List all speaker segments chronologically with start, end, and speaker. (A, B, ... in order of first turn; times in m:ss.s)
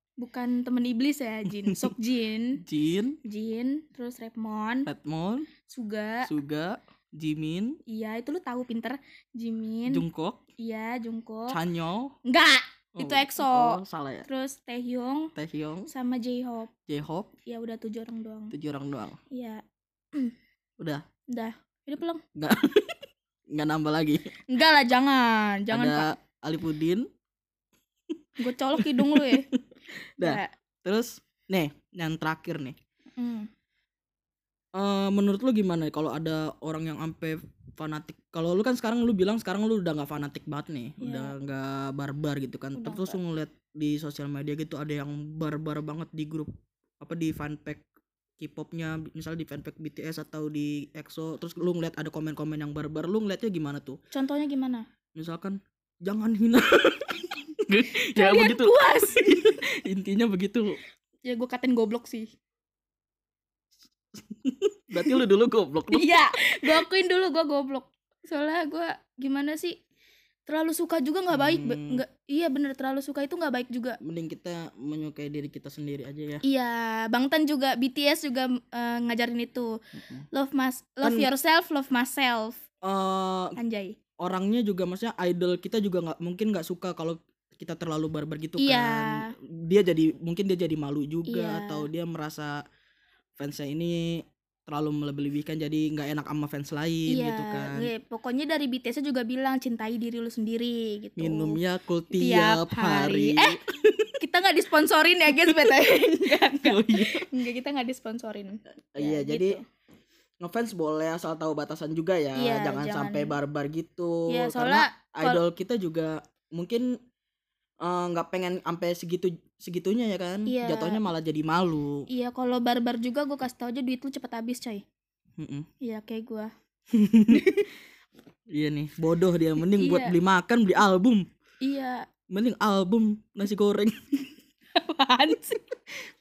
0:00.2-0:02.6 A
0:01.6-0:02.0 B
0:02.6-0:03.2 B
0:03.2-0:04.9 A
0:04.8-0:05.5 B
0:05.6-0:06.3 A
0:06.2-0:07.8 B
0:07.9-0:10.0 A
0:09.9-0:10.4 B
0:10.6-0:11.6 A
0:11.5-0:12.1 B
0:12.2-0:15.3 A
0:13.0-0:14.3 B
0:15.3-0:15.9 B
0:15.9-0:16.7 A
0:16.9-0:17.3 B
0:17.4-0:18.5 A
0:18.5-0:19.2 B
0:19.3-0:19.6 A
0:21.3-0:22.2 A
0:22.4-0:22.9 B
0:23.5-0:24.2 B
0:24.5-0:26.1 A
0:25.7-0:27.1 B
0:28.4-0:29.5 A
0:28.8-0:29.6 B
0:30.2-0:32.7 B
0:30.2-0:30.5 A
0:33.2-0:33.5 A
0:34.8-0:46.5 B
0:41.0-0:41.3 A
0:42.7-0:43.2 A
0:47.0-0:47.8 B
0:48.4-0:54.0 B
0:54.1-0:54.8 A
0:55.2-1:00.8 B
0:58.0-0:59.5 A
1:01.2-1:02.3 A
1:04.1-1:06.1 B
1:05.9-1:09.8 A
1:10.5-1:14.0 A
1:11.3-1:12.0 B
1:14.0-1:16.4 B
1:16.4-1:19.7 A
1:20.0-1:20.2 B
1:20.3-1:22.6 A
1:21.0-1:21.3 B
1:22.8-1:23.6 B
1:23.6-1:24.0 A
1:24.2-1:32.5 B
1:28.6-1:29.3 A
1:31.3-1:31.9 A
1:33.4-1:37.9 B
1:37.1-1:41.6 A
1:41.2-1:44.1 B
1:42.1-1:43.6 A
1:44.2-1:49.6 A
1:45.3-1:47.2 B
1:49.0-1:49.6 B
1:50.4-1:56.9 B
1:52.3-1:53.4 A
1:54.3-1:55.4 A
1:57.8-2:02.0 B
2:00.5-2:01.0 A
2:02.1-2:04.8 A
2:05.4-2:05.7 B
2:05.8-2:06.5 A
2:06.9-2:07.4 B
2:07.3-2:07.7 A
2:08.5-2:11.2 B
2:09.6-2:10.1 A
2:11.6-2:12.0 A
2:12.3-2:13.9 B
2:14.7-2:15.7 A